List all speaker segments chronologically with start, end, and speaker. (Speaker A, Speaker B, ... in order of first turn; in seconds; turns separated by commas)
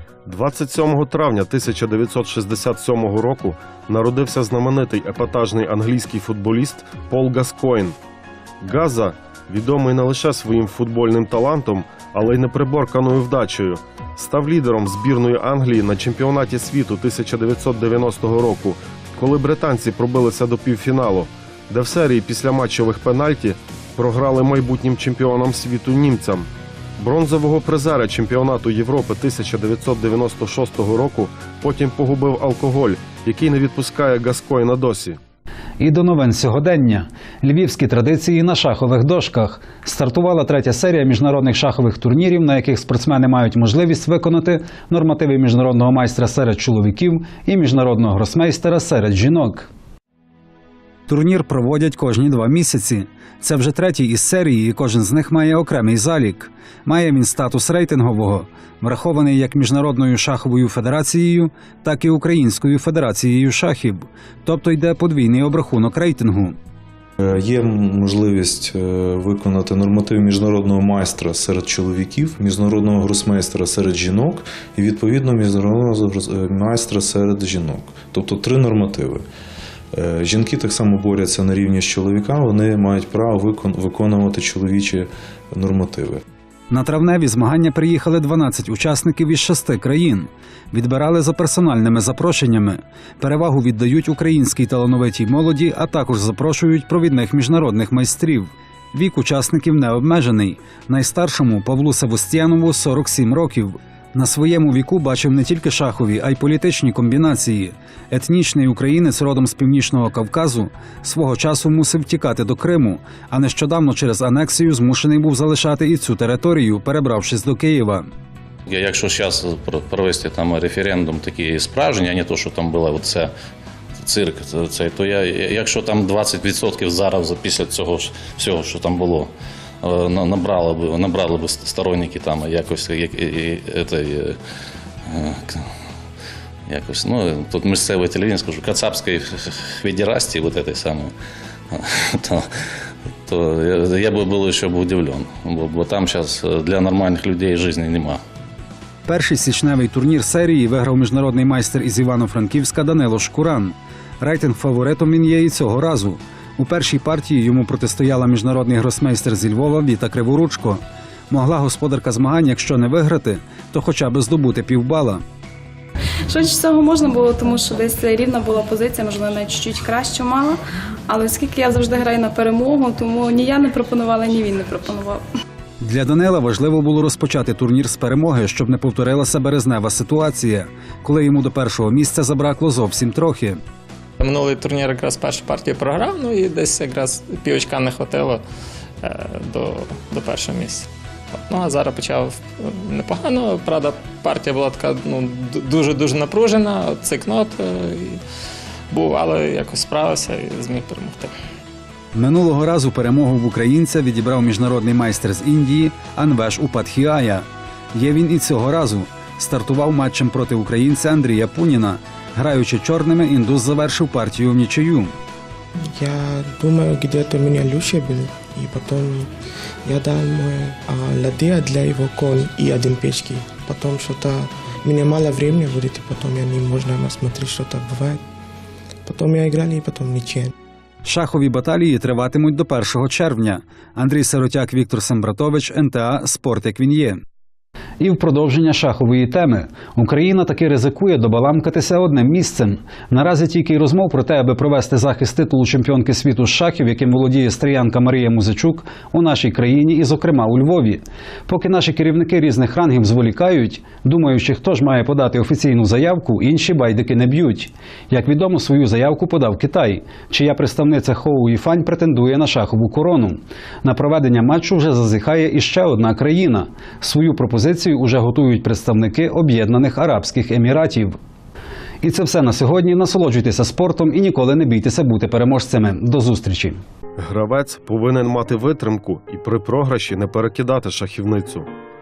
Speaker A: 0.3-7.9, Speaker A: 8.6-35.2, Speaker B: 35.8-49.7, Speaker B: 51.1-66.6, Speaker C: 67.2-79.2, Speaker C: 79.9-86.2, Speaker B: 86.7-118.1, Speaker D: 118.7-123.3, Speaker D: 124.0-129.3, Speaker D: 129.8-134.4, Speaker D: 135.1-135.7, Speaker D: 136.7-141.1, Speaker D: 141.7-142.4, Speaker D: 143.2-148.2, Speaker B: 149.1-165.2, Speaker E: 166.3-170.6, Speaker E: 171.1-175.2, Speaker B: 175.8-183.6, Speaker F: 184.2-188.4, Speaker F: 189.0-198.2, Speaker F: 198.9-201.3, Speaker B: 202.1-215.1, Speaker G: 215.9-219.3, Speaker G: 219.8-228.2, Speaker G: 229.1-230.5, Speaker B: 231.0-237.2, Speaker B: 238.0-271.2, Speaker B: 272.0-276.8, Speaker A: 277.2-281.7